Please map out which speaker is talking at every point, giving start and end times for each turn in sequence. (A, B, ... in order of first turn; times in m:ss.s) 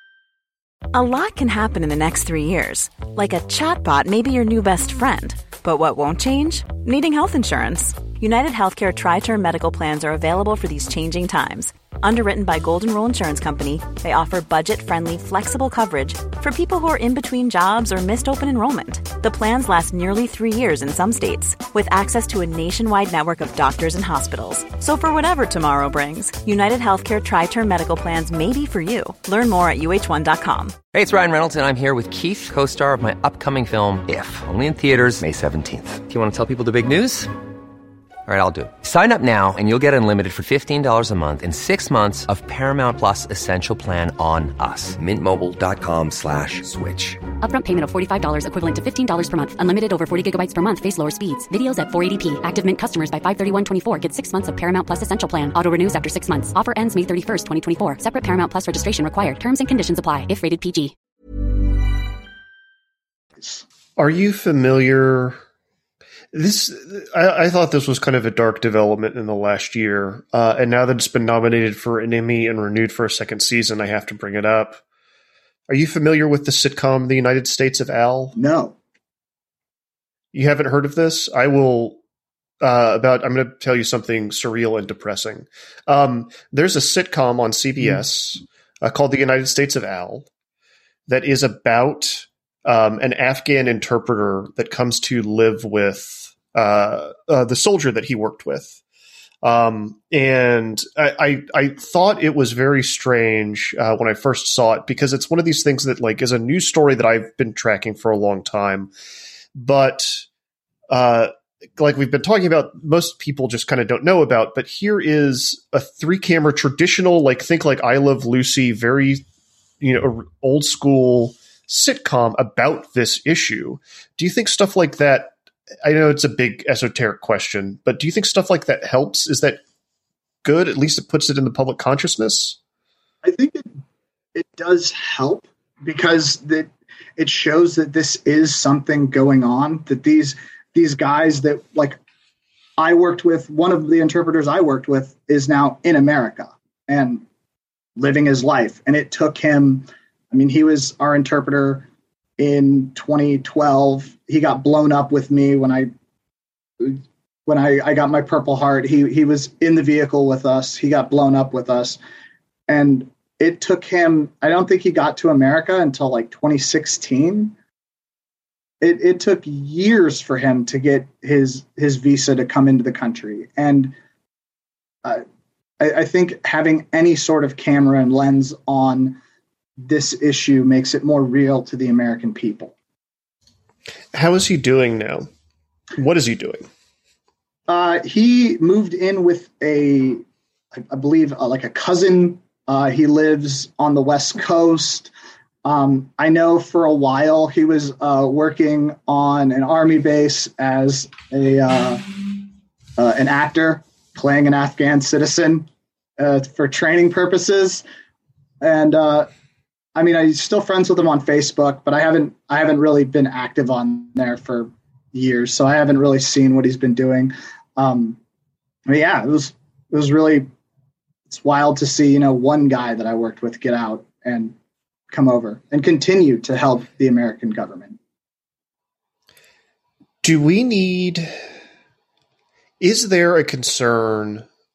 0:00.9-0:30.8 A
0:30.9-0:37.3 B
0:38.3-0:47.3 B
0:47.4-1:00.9 C
1:04.0-1:05.4 D
1:06.3-1:14.8 D
1:15.7-1:18.4 D
1:18.4-1:18.8 E
1:20.3-1:22.0 D
1:22.6-1:30.3 D
1:31.1-1:38.8 D
1:39.4-1:48.9 D
1:49.6-1:50.3 D
1:50.9-1:59.2 D
1:59.8-2:09.6 D
2:10.4-2:12.6 D
2:13.2-2:13.7 E
2:14.4-2:22.0 E
2:22.8-2:27.2 E
2:28.0-2:31.9 E
2:32.4-2:35.9 E
2:36.8-2:42.0 E
2:42.7-2:47.5 E
2:48.8-2:53.9 E
2:55.8-2:59.2 E
2:59.8-3:02.7 E
3:04.1-3:05.3 D
3:06.0-3:06.7 D
3:07.7-3:10.2 E
3:10.8-3:15.1 E
3:15.6-3:22.0 E
3:23.0-3:25.7 E
3:26.2-3:27.8 E
3:28.6-3:29.3 E
3:30.0-3:38.2 E
3:38.9-3:40.5 E
3:41.3-3:44.6 E
3:45.1-3:48.0 E
3:50.2-3:51.3 D
3:52.8-3:54.5 D